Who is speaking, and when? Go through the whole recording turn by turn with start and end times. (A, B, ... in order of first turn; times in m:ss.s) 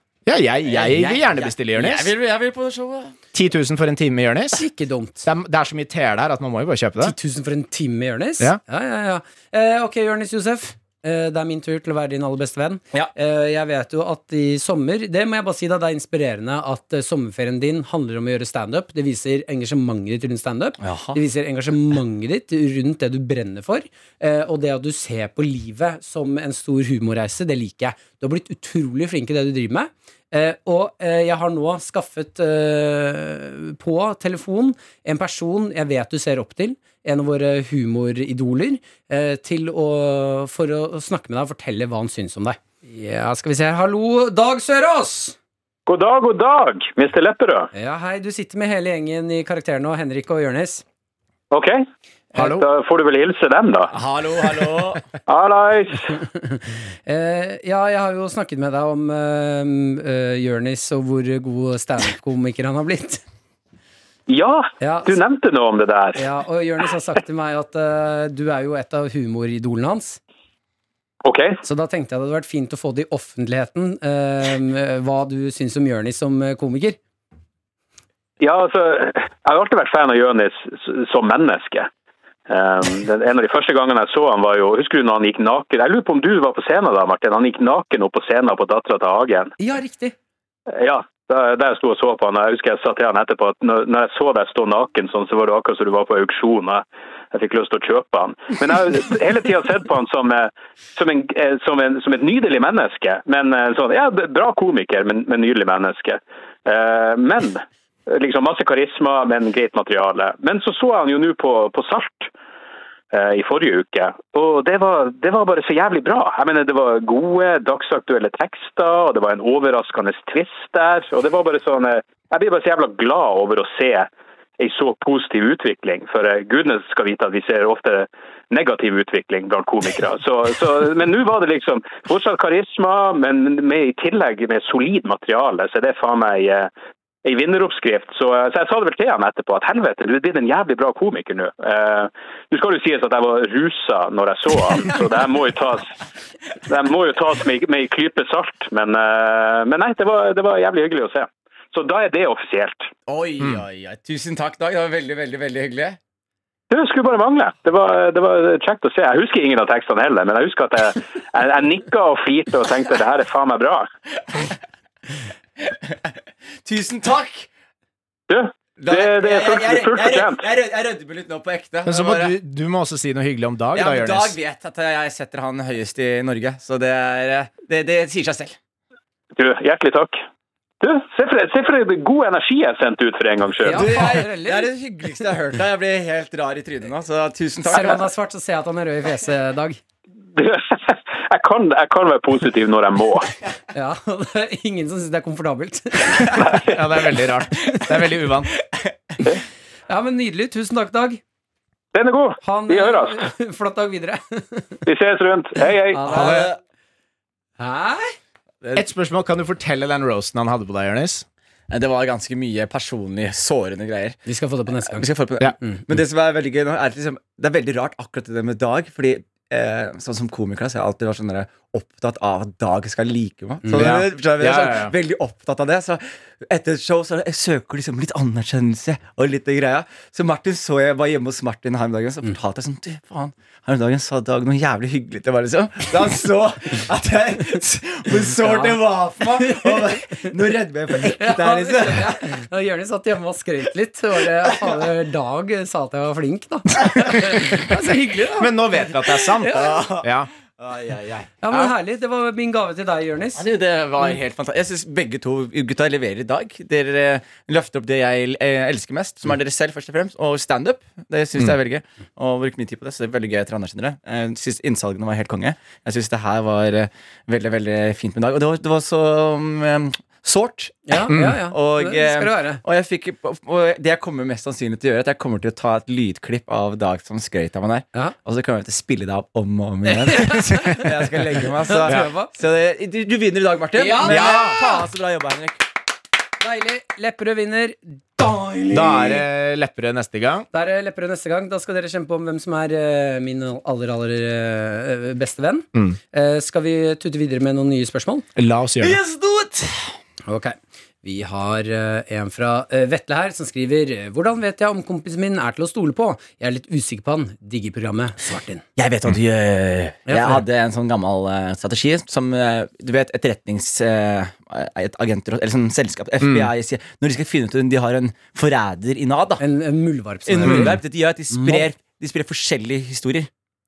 0:00.3-0:02.1 A
0:00.7-0:03.2 B
0:03.3-0:04.6 A
0:04.5-0:05.3 C
0:05.2-0:07.2 A
0:07.0-0:45.4 C
0:20.8-0:21.2 B
0:45.9-0:47.7 D
0:47.7-0:50.8 C
0:51.5-0:51.8 D
0:52.4-0:52.6 A
0:52.4-0:53.9 D
0:53.9-0:55.1 B
0:55.3-0:56.2 D
0:56.1-1:03.2 C
1:04.3-1:06.2 D
1:04.8-1:05.2 C
1:06.2-1:10.2 C
1:11.2-1:11.6 D
1:11.6-1:17.0 C
1:18.4-1:21.9 D
1:22.5-1:29.5 D
1:29.6-1:30.2 C
1:30.7-1:52.3 D
1:53.1-2:16.7 D
2:17.2-2:25.9 D
2:26.7-2:32.9 D
2:33.1-2:36.0 B
2:36.7-2:43.9 D
2:45.6-2:46.1 B
2:46.6-2:47.5 B
2:48.3-2:50.5 D
2:48.8-2:52.4 B
2:51.9-2:54.4 A
2:53.7-2:58.6 B
2:59.4-3:00.2 D
3:00.8-3:04.1 D
3:03.6-3:04.7 C
3:03.7-3:08.1 B
3:07.6-3:09.8 C
3:10.3-3:13.3 D
3:13.7-3:16.5 C
3:16.3-3:16.8 D
3:16.5-3:18.5 A
3:19.9-3:21.2 C
3:21.9-3:23.3 D
3:22.4-3:24.8 C
3:24.9-3:26.4 D
3:25.8-3:26.5 C
3:26.1-3:26.6 B
3:26.2-3:26.4 A
3:27.6-3:28.2 C
3:28.8-3:31.2 A
3:31.7-3:34.2 B
3:34.3-3:35.1 C
3:34.9-4:02.3 B
3:43.6-3:44.0 C
3:43.8-3:45.0 A
3:58.4-3:58.8 C
3:59.4-4:00.3 C
4:01.2-4:08.5 C
4:08.4-4:10.3 A
4:09.1-4:09.8 C
4:09.4-4:11.7 B
4:11.4-4:13.4 C
4:13.4-4:45.6 B
4:30.9-4:32.6 C
4:31.1-4:31.4 A
4:39.9-4:40.9 C
4:41.4-4:42.3 C
4:43.8-4:44.8 C
4:44.0-4:44.6 A
4:46.4-4:49.2 C
4:48.7-4:50.5 A
4:50.5-4:58.3 C
4:58.4-4:59.0 A
4:58.8-4:59.9 B
5:00.3-5:08.6 C
5:08.8-5:19.4 B
5:10.1-5:10.4 C
5:16.2-5:16.5 A
5:19.4-5:20.8 C
5:20.3-5:23.3 B
5:20.4-5:20.8 A
5:21.3-5:21.7 C